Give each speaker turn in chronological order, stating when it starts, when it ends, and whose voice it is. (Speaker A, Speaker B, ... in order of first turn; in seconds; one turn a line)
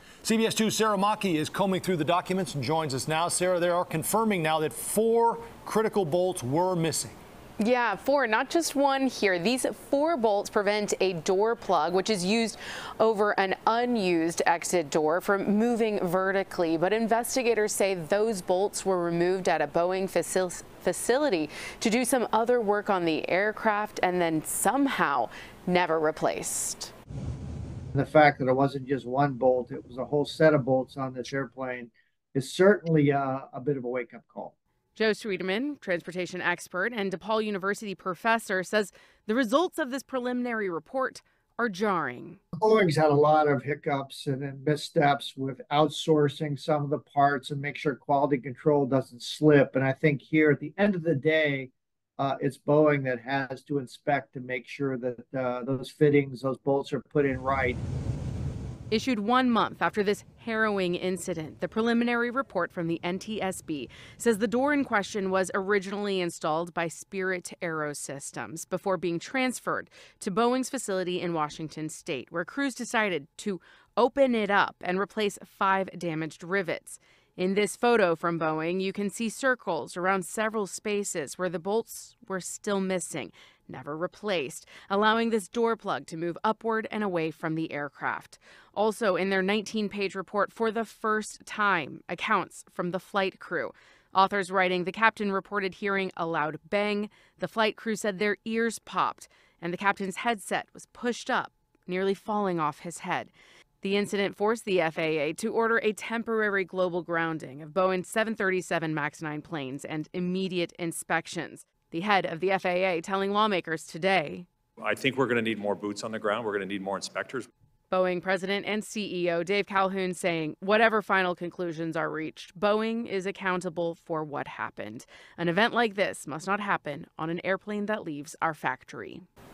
Speaker A: 0.2-7.2
Speaker B: 7.6-26.9
Speaker C: 27.9-34.5
Speaker B: 35.0-42.4
Speaker C: 42.5-57.8
Speaker B: 58.9-114.5
Speaker D: 114.8-117.5
Speaker B: 117.9-129.2